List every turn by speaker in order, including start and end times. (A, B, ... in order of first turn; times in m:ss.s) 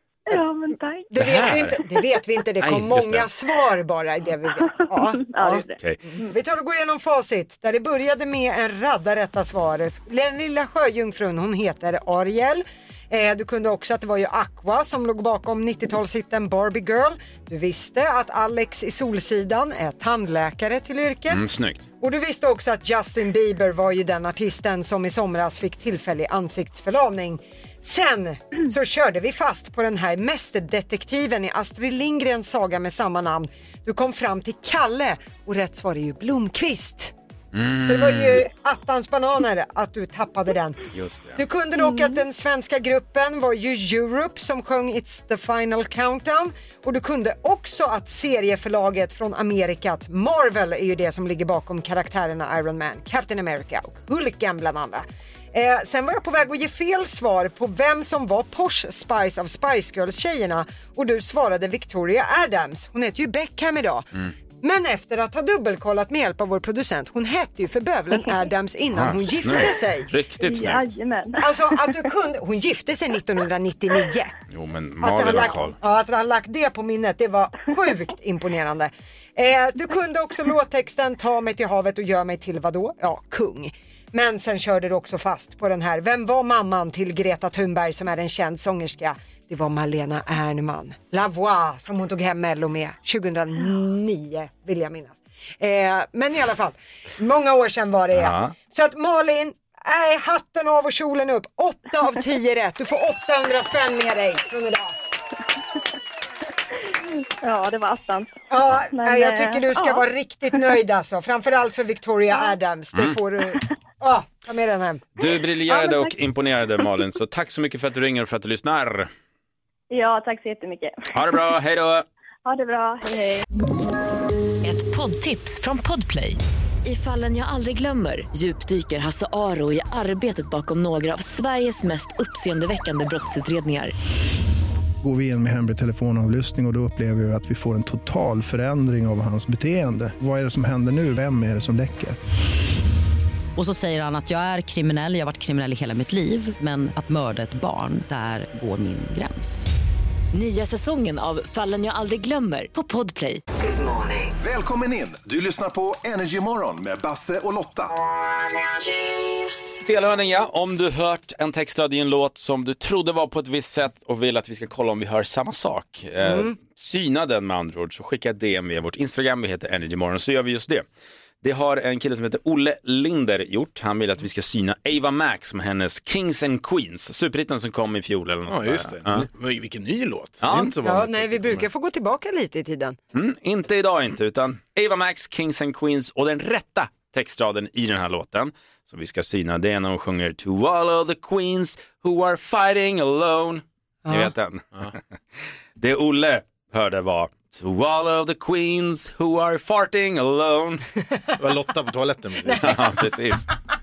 0:00.3-0:01.1 A
0:01.1-0:21.4 B
0:01.2-0:01.8 C
0:02.6-0:03.3 C
0:05.3-0:05.8 A
0:21.3-0:21.9 C
0:22.0-0:37.1 B
0:37.5-0:38.4 C
0:37.8-0:40.8 B
0:40.9-0:41.4 C
0:41.4-1:04.1 B
1:04.6-1:10.1 B
1:08.9-1:10.8 C
1:10.4-1:11.5 A
1:11.4-1:14.3 B
1:14.5-1:15.8 C
1:15.0-1:44.9 B
1:38.1-1:38.5 C
1:47.4-1:48.4 A
1:48.5-1:55.0 B
1:48.9-1:50.0 A
1:55.2-1:59.1 C
1:55.3-1:56.2 A
1:59.9-2:01.1 A
2:01.1-2:02.1 C
2:02.4-2:03.4 A
2:04.6-2:13.9 D
2:15.0-2:22.2 E
2:23.6-2:29.7 F
2:30.3-2:33.4 D
2:34.3-2:37.9 G
2:39.8-2:50.8 C
2:46.2-2:46.5 B
2:51.4-2:59.3 C
2:58.5-3:01.7 H
3:00.4-3:00.8 C
3:00.8-3:03.0 B
3:03.1-3:14.6 C
3:14.1-3:14.3 B
3:15.8-3:20.9 C
3:21.4-3:22.9 H
3:22.6-3:23.5 C